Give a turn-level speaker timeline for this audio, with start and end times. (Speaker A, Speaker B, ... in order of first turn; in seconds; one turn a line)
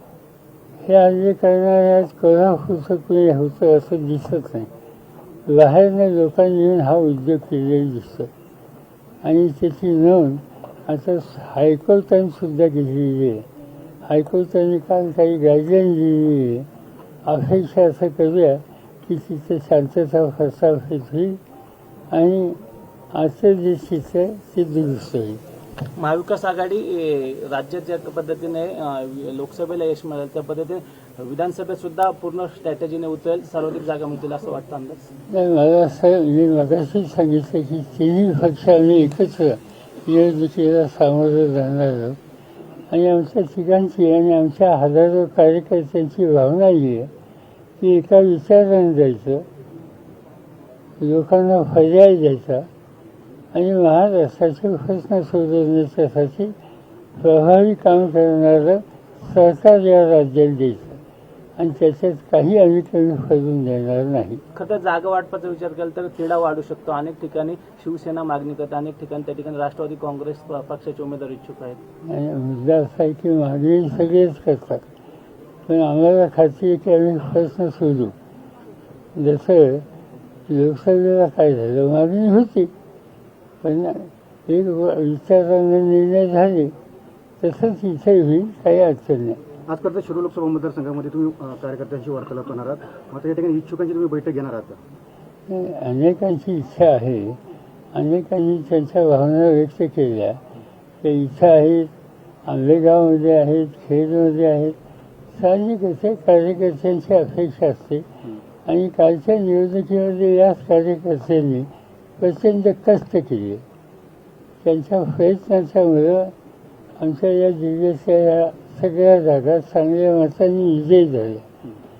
Speaker A: 0.8-4.7
Speaker A: 5.5-8.3
Speaker A: 9.2-13.5
Speaker A: 14.1-16.7
Speaker A: 17.2-21.4
Speaker A: 22.1-22.6
Speaker A: 23.1-25.4
Speaker B: 26.0-35.1
Speaker A: 35.3-42.2
Speaker A: 42.9-47.1
Speaker A: 47.8-49.5
Speaker A: 51.0-52.7
Speaker A: 53.5-56.5
Speaker A: 57.2-61.0
Speaker A: 61.6-64.4
Speaker B: 64.5-71.8
Speaker A: 72.0-74.8
Speaker A: 75.7-78.1
Speaker A: 79.1-79.8
Speaker A: 80.5-82.7
Speaker A: 83.6-86.7
Speaker A: 87.4-89.4
Speaker C: 89.7-94.8
Speaker A: 95.5-97.4
Speaker A: 97.9-100.4
Speaker A: 101.0-101.9
Speaker A: 102.5-104.8
Speaker A: 105.3-108.1
Speaker A: 108.7-113.6
Speaker A: 114.6-116.3
Speaker A: 117.0-121.5